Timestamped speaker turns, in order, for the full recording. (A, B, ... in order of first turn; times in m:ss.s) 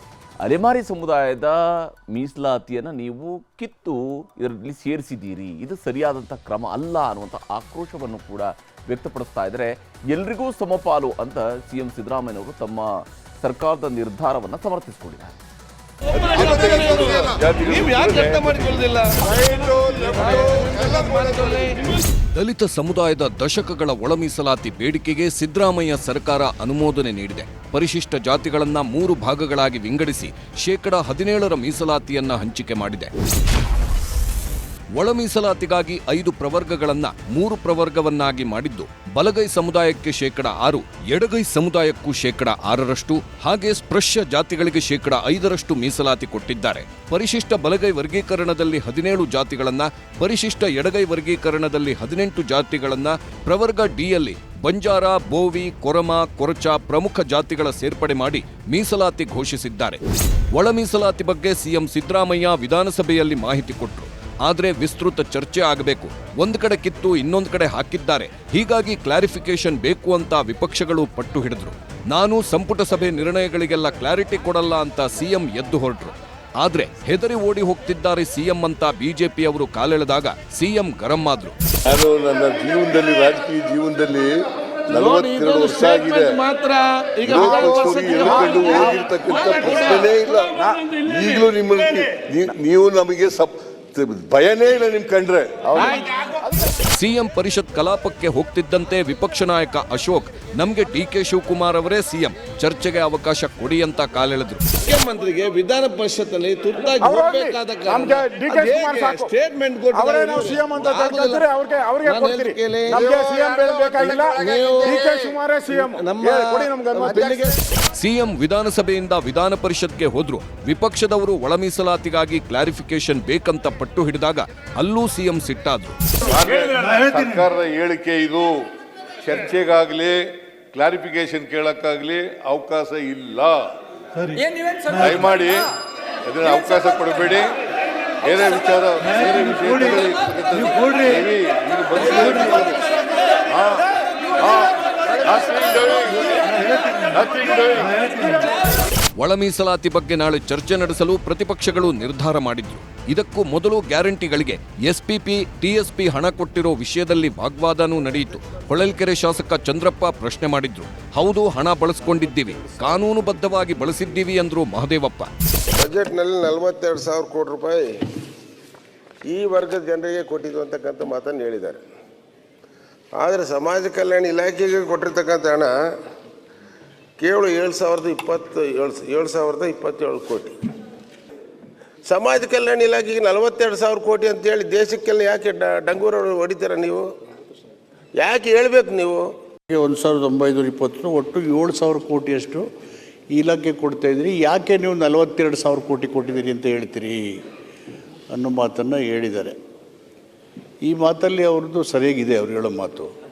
0:00.4-0:15.3 A
0:16.1-0:21.9 B
0:16.3-0:18.8 C
0:19.5-0:20.0 C
0:22.3-0:33.1 D
0:34.9-1:00.0 D
1:00.5-1:21.6 D
1:21.8-1:24.3 C
1:24.9-1:26.4 C
1:24.9-1:30.4 B
1:27.2-1:36.0 C
1:35.8-1:36.3 B
1:36.9-1:44.8 D
1:44.8-1:53.2 B
1:47.0-1:49.3 E
1:49.9-1:57.5 E
1:54.0-1:57.6 B
1:58.0-2:06.0 D
2:06.2-2:08.5 C
2:09.2-2:13.7 C
2:14.9-2:15.7 C
2:16.2-2:17.5 C
2:18.2-2:22.8 C
2:23.5-2:23.9 C
2:24.4-2:26.3 C
2:27.0-2:28.1 C
2:29.2-2:45.3 D
2:45.7-2:47.9 F
2:49.2-2:51.8 F
2:53.2-2:55.7 F
2:57.2-3:00.5 F
3:02.1-3:07.1 F
3:08.2-3:09.3 F
3:09.7-3:12.7 G
3:13.3-3:17.4 G
3:18.3-3:19.6 G
3:20.8-3:23.1 G